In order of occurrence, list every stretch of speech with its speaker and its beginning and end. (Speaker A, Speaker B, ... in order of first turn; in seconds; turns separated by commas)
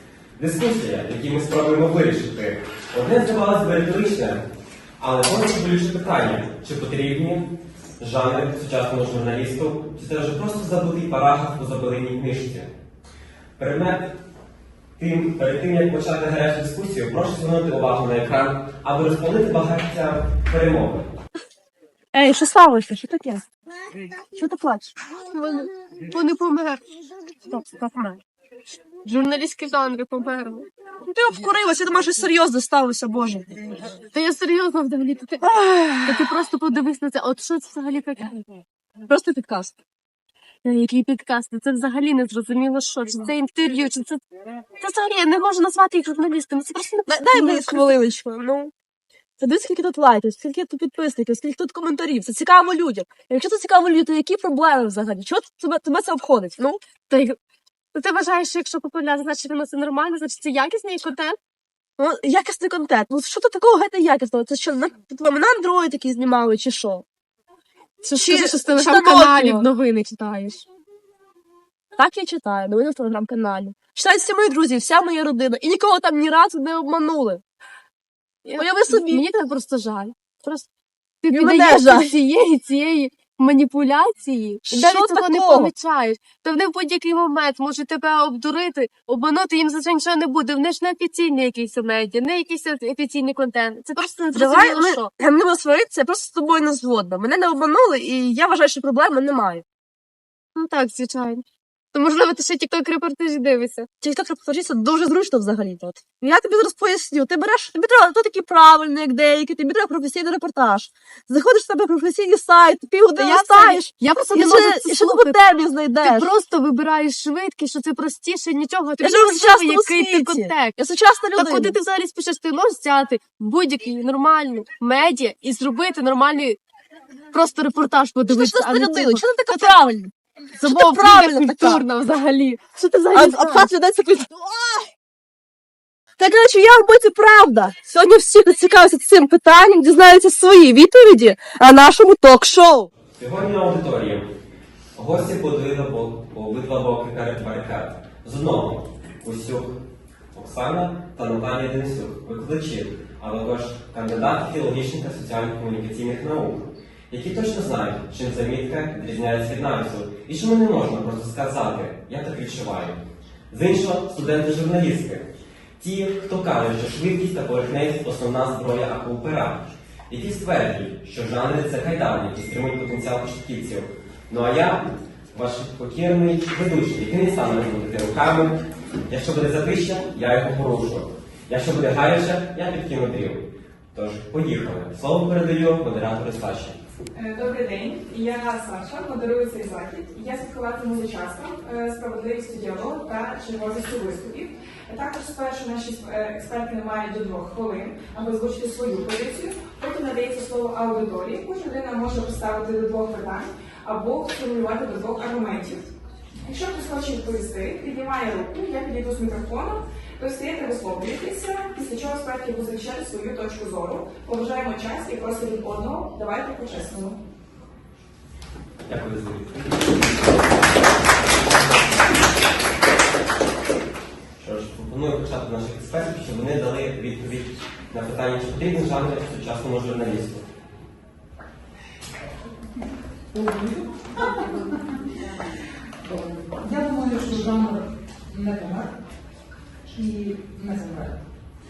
Speaker A: 0.4-4.4, Speaker A: 5.0-12.7, Speaker A: 13.6-14.1, Speaker A: 15.0-21.1, Speaker B: 22.1-23.4, Speaker B: 24.2-24.9, Speaker C: 25.3-26.8, Speaker C: 27.5-28.2, Speaker C: 29.0-30.6, Speaker B: 31.1-33.7, Speaker C: 33.8-35.4, Speaker B: 35.4-36.3, Speaker C: 36.0-38.5, Speaker B: 39.0-39.7, Speaker C: 40.6-44.2, Speaker C: 44.8-47.9, Speaker B: 47.0-48.7, Speaker B: 49.4-56.8, Speaker C: 57.1-57.4, Speaker C: 57.9-61.4, Speaker B: 62.0-67.0, Speaker C: 68.0-70.6, Speaker B: 68.1-69.7, Speaker B: 71.9-77.4, Speaker C: 78.4-80.7, Speaker B: 78.5-79.3, Speaker C: 81.2-95.1, Speaker B: 81.3-82.2, Speaker B: 84.6-85.7, Speaker B: 94.0-99.6, Speaker C: 100.5-103.9, Speaker B: 104.0-116.3, Speaker C: 113.1-115.3, Speaker C: 116.0-120.8, Speaker B: 119.0-121.8, Speaker C: 121.3-126.6, Speaker C: 127.3-129.7, Speaker B: 128.3-130.1, Speaker C: 130.6-133.7, Speaker B: 130.6-131.8, Speaker B: 133.1-134.9, Speaker B: 136.2-142.9, Speaker A: 143.1-144.3, Speaker A: 144.9-149.8, Speaker A: 150.3-165.3, Speaker A: 165.8-186.8, Speaker D: 187.2-205.9, Speaker D: 206.4-217.2, Speaker A: 218.9-220.1, Speaker A: 224.4-230.4, Speaker E: 233.3-235.0, Speaker E: 236.0-239.0, Speaker E: 239.9-241.2